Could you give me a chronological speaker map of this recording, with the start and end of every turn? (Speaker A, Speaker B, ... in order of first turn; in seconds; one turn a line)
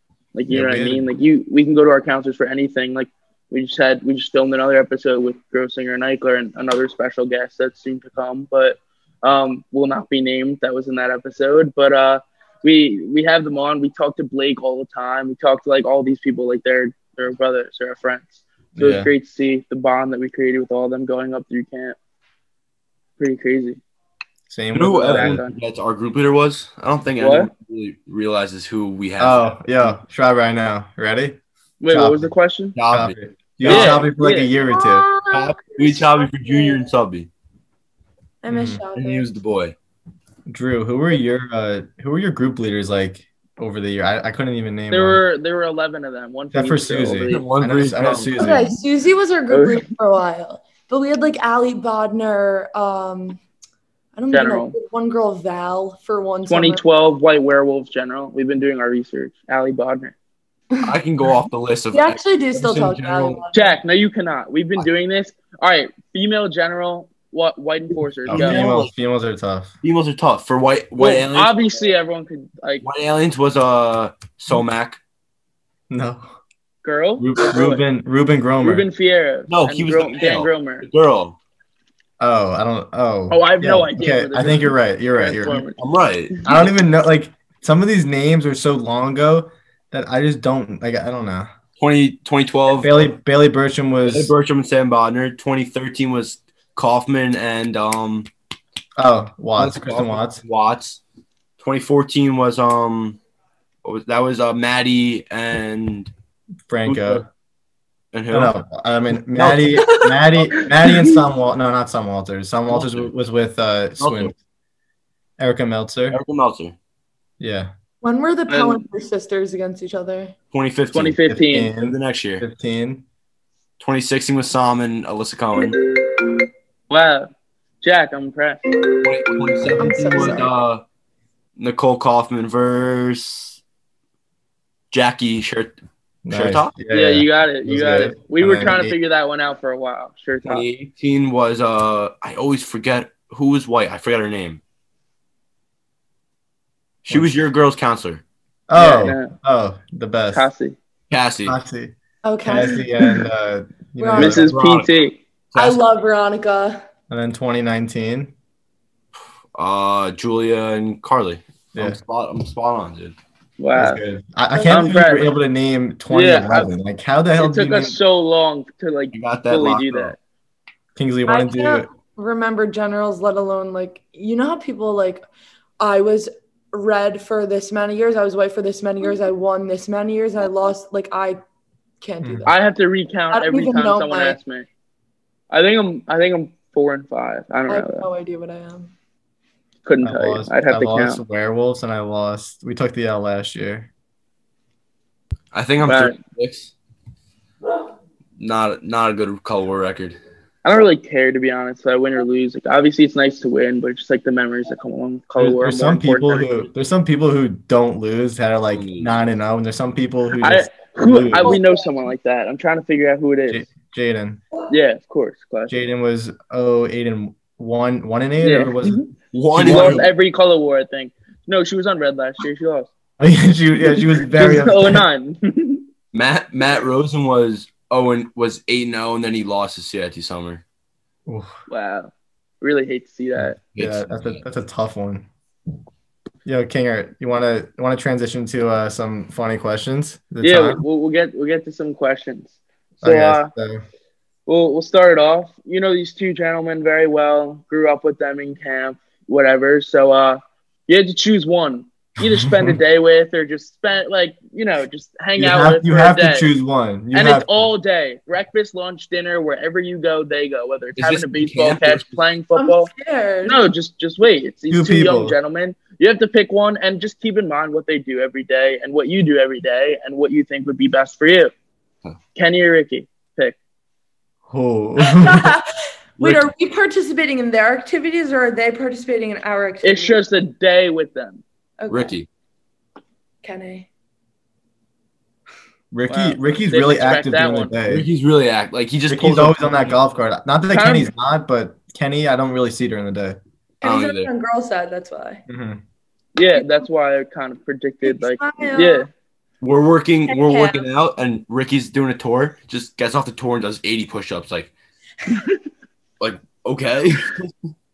Speaker A: 0.3-22.0
Speaker B: 0.5-1.1
Speaker B: 18.8-19.1
Speaker A: 23.2-23.8
Speaker B: 24.5-25.4
Speaker C: 24.7-29.9
Speaker A: 24.9-25.5
Speaker A: 27.2-27.5
Speaker B: 29.2-32.3
Speaker A: 31.8-32.8
Speaker C: 32.8-34.1
Speaker B: 32.9-35.1
Speaker A: 33.6-34.5
Speaker D: 34.7-36.9
Speaker C: 35.3-37.3
Speaker D: 38.4-39.3
Speaker B: 38.5-38.8
Speaker C: 39.0-39.8
Speaker B: 40.5-45.2
Speaker A: 44.9-47.5
Speaker B: 46.5-48.7
Speaker C: 47.3-48.6
Speaker D: 48.4-53.4
Speaker A: 49.5-49.9
Speaker D: 54.2-56.8
Speaker A: 54.3-54.8
Speaker A: 56.5-60.1
Speaker D: 60.7-61.3
Speaker C: 60.8-63.4
Speaker D: 61.9-63.8
Speaker A: 63.5-68.6
Speaker C: 68.3-68.9
Speaker B: 68.3-69.7
Speaker C: 69.8-71.5
Speaker A: 71.0-72.8
Speaker C: 72.8-75.0
Speaker B: 75.9-76.2
Speaker A: 76.8-77.8
Speaker B: 77.2-78.8
Speaker A: 78.6-80.9
Speaker C: 79.5-81.4
Speaker B: 82.2-85.7
Speaker A: 83.3-85.8
Speaker C: 85.8-86.5
Speaker A: 86.3-86.7
Speaker B: 86.5-91.5
Speaker C: 91.8-93.1
Speaker B: 92.8-94.3
Speaker C: 94.1-98.3
Speaker B: 99.0-100.4
Speaker C: 99.6-101.0
Speaker C: 101.6-103.2
Speaker C: 103.8-106.1
Speaker B: 106.7-107.3
Speaker C: 106.8-107.2
Speaker C: 108.1-108.5
Speaker B: 108.3-114.3
Speaker C: 109.3-110.0
Speaker C: 112.7-113.1
Speaker C: 114.0-114.3
Speaker B: 115.4-116.2
Speaker C: 116.1-116.8
Speaker B: 117.4-117.7
Speaker D: 118.0-120.3
Speaker A: 118.5-118.8
Speaker C: 120.5-121.2
Speaker A: 120.9-121.7
Speaker B: 121.3-123.0
Speaker C: 121.8-122.5
Speaker C: 123.8-125.8
Speaker A: 126.9-127.3
Speaker A: 127.8-128.6
Speaker C: 129.0-130.8
Speaker D: 129.8-130.5
Speaker C: 131.6-133.6
Speaker C: 134.9-135.8
Speaker B: 136.2-138.9
Speaker C: 136.3-136.7
Speaker A: 136.9-140.7
Speaker C: 140.4-144.6
Speaker C: 147.0-148.2
Speaker B: 148.7-150.5
Speaker A: 148.8-149.3
Speaker A: 150.3-150.8
Speaker C: 151.1-151.6
Speaker B: 151.4-154.6
Speaker D: 152.2-152.8
Speaker D: 154.0-154.5
Speaker A: 154.2-155.2
Speaker C: 154.4-154.9
Speaker C: 155.5-155.8
Speaker D: 155.6-156.8
Speaker B: 157.1-158.3
Speaker C: 159.6-163.2
Speaker A: 163.6-164.0
Speaker B: 163.8-168.0
Speaker D: 164.5-164.9
Speaker A: 164.7-165.3
Speaker A: 166.1-166.7
Speaker A: 167.4-170.2
Speaker C: 169.1-170.2
Speaker B: 171.0-171.9
Speaker D: 171.3-175.2
Speaker D: 175.8-181.4
Speaker D: 182.0-182.6
Speaker B: 182.2-182.5
Speaker A: 182.5-184.7
Speaker D: 183.3-184.4
Speaker A: 185.5-188.1
Speaker D: 187.7-188.9
Speaker A: 189.9-191.2
Speaker B: 190.0-193.9
Speaker C: 195.5-196.7
Speaker A: 195.8-196.2
Speaker C: 198.4-200.2
Speaker A: 200.7-206.7
Speaker B: 205.4-211.6
Speaker C: 208.7-209.2
Speaker A: 210.4-213.7
Speaker D: 211.4-212.1
Speaker B: 213.5-214.4
Speaker A: 214.7-215.8
Speaker B: 215.7-219.0
Speaker A: 218.4-219.1
Speaker C: 219.3-220.1
Speaker B: 219.5-220.0
Speaker A: 219.6-222.9
Speaker B: 223.2-225.1
Speaker A: 223.9-225.8
Speaker C: 226.1-230.6
Speaker B: 231.3-231.5
Speaker A: 231.7-233.6
Speaker C: 233.7-234.4
Speaker B: 233.8-235.3
Speaker B: 236.4-240.8
Speaker A: 240.4-243.5
Speaker B: 243.0-243.8
Speaker A: 244.5-256.5
Speaker B: 252.3-252.8
Speaker B: 255.4-257.5
Speaker A: 257.1-262.9
Speaker C: 261.0-262.2
Speaker D: 262.6-263.6
Speaker A: 263.4-271.5
Speaker B: 264.7-265.4
Speaker A: 272.4-273.6
Speaker B: 274.5-275.6
Speaker D: 275.0-275.7
Speaker D: 276.2-280.2
Speaker A: 279.8-281.4
Speaker D: 281.8-282.1
Speaker C: 281.9-282.3
Speaker D: 283.4-283.9
Speaker B: 285.9-288.1
Speaker A: 286.1-287.7
Speaker C: 287.9-290.0
Speaker B: 289.1-293.4
Speaker A: 290.7-291.1
Speaker D: 293.8-295.4
Speaker C: 293.8-294.3
Speaker B: 295.5-295.8
Speaker A: 296.4-299.1
Speaker D: 296.6-296.8
Speaker D: 298.0-299.1
Speaker C: 299.6-304.7
Speaker D: 300.3-300.9
Speaker C: 306.2-307.6